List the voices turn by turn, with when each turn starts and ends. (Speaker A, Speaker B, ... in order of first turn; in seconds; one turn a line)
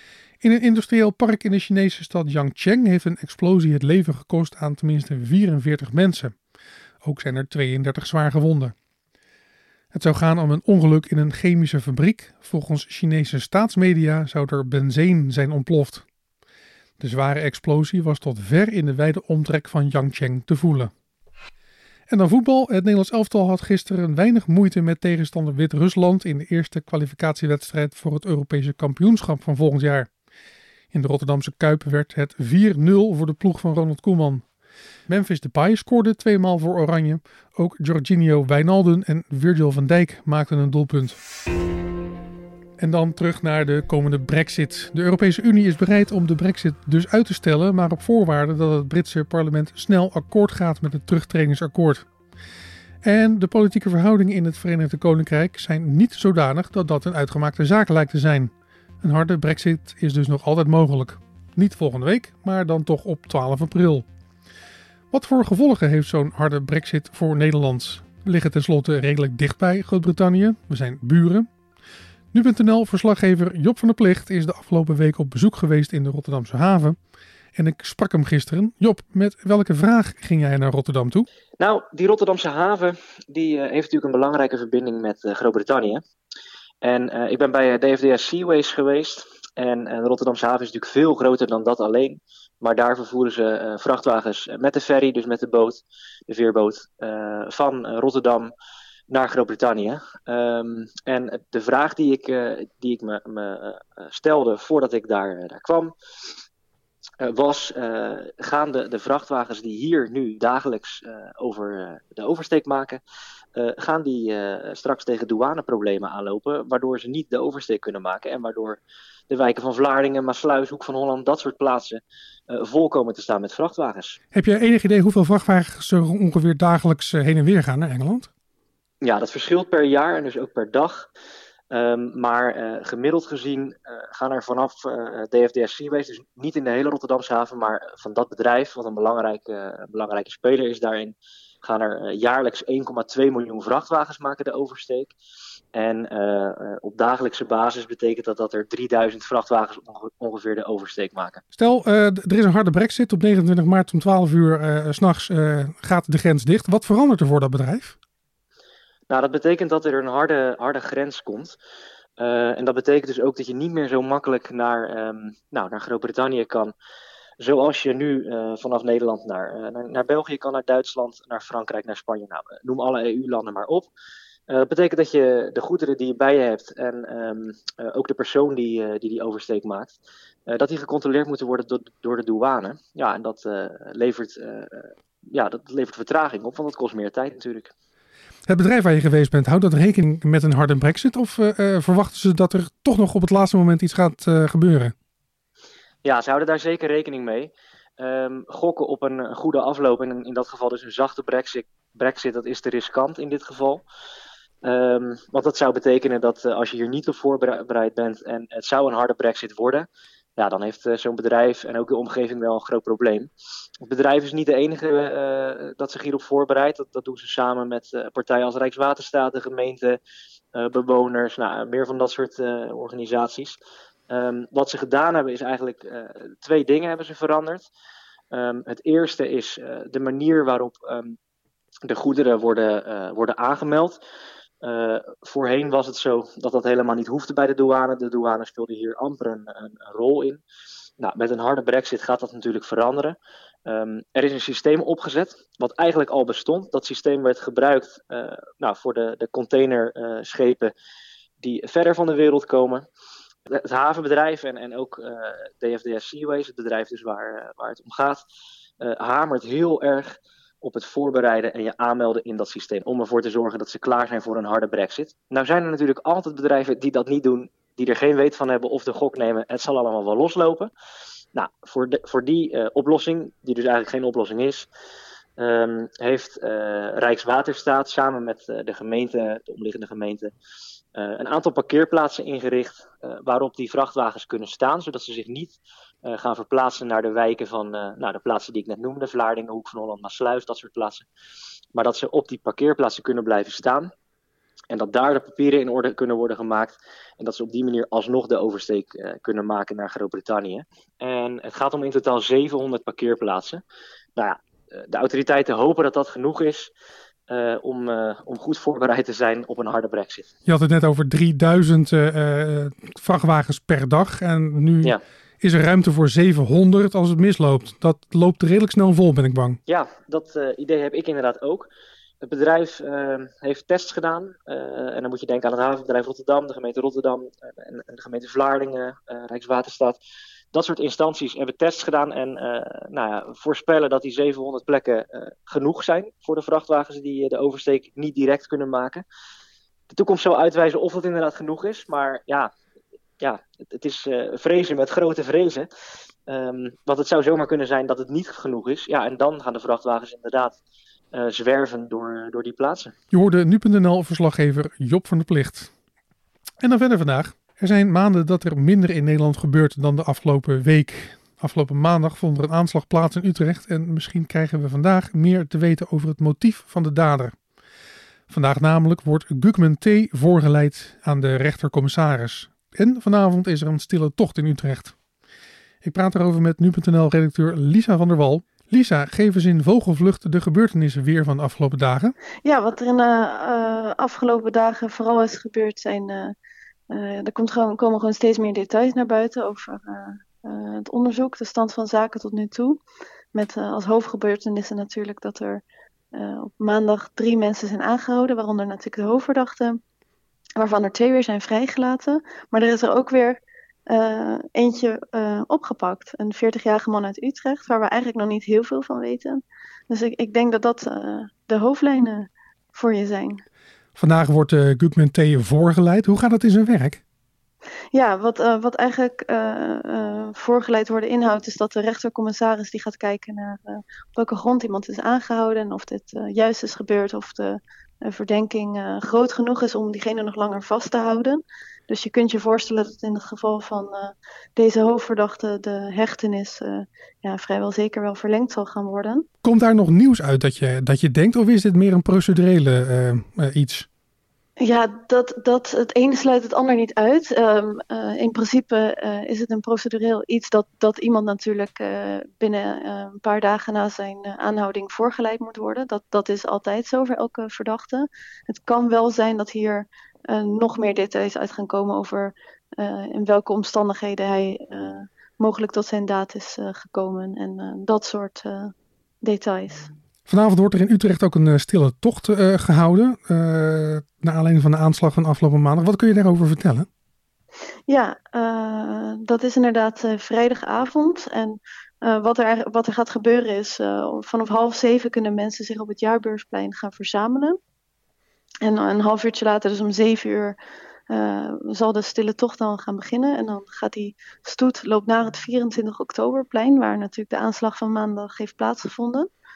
Speaker A: 0.4-6.3
Speaker A: 7.0-8.8
Speaker A: 9.9-16.1
Speaker A: 17.0-20.9
Speaker A: 22.1-30.1
Speaker A: 30.9-34.5
Speaker A: 35.1-41.2
Speaker A: 42.8-52.1
Speaker A: 53.0-64.1
Speaker A: 65.1-71.5
Speaker A: 72.3-77.0
Speaker A: 77.5-81.3
Speaker B: 81.6-86.0
Speaker B: 86.8-98.5
Speaker B: 99.1-106.4
Speaker B: 107.2-113.0
Speaker B: 113.6-124.2
Speaker A: 124.3-128.3
Speaker B: 129.0-131.1
Speaker B: 131.7-145.1
Speaker B: 145.7-151.4
Speaker A: 151.6-158.0
Speaker B: 159.1-161.6
Speaker B: 162.2-166.7
Speaker B: 167.4-173.9
Speaker B: 174.5-187.7
Speaker A: 188.5-194.9
Speaker B: 196.1-203.8
Speaker B: 204.6-213.3
Speaker B: 213.8-220.0
Speaker B: 220.6-223.6
Speaker B: 224.1-227.7
Speaker B: 228.3-231.2
Speaker B: 231.9-234.0
Speaker B: 234.6-240.4
Speaker B: 241.0-250.7
Speaker B: 251.4-252.9
Speaker B: 253.5-258.2
Speaker B: 258.8-270.7
Speaker B: 271.4-274.7
Speaker B: 275.4-280.3
Speaker B: 280.9-291.1
Speaker B: 291.8-293.9
Speaker B: 294.7-303.6
Speaker B: 304.2-306.7
Speaker B: 307.3-310.3
Speaker A: 310.5-319.6
Speaker B: 319.7-321.7
Speaker B: 322.2-330.0
Speaker B: 330.5-339.1
Speaker B: 339.9-342.5
Speaker B: 343.2-345.7
Speaker B: 346.3-350.6
Speaker B: 351.1-352.9
Speaker A: 353.1-355.7
Speaker A: 356.6-367.4
Speaker A: 368.3-375.0
Speaker A: 375.8-382.1
Speaker C: 382.4-386.3
Speaker C: 386.9-392.8
Speaker C: 393.3-395.6
Speaker C: 396.1-399.8
Speaker C: 400.6-413.4
Speaker A: 414.0-417.0
Speaker C: 417.9-439.3
Speaker A: 439.4-443.9
Speaker C: 444.6-468.7
Speaker C: 469.2-469.9
Speaker A: 470.3-476.9
Speaker C: 477.9-487.6
Speaker C: 488.6-490.6
Speaker C: 491.1-499.3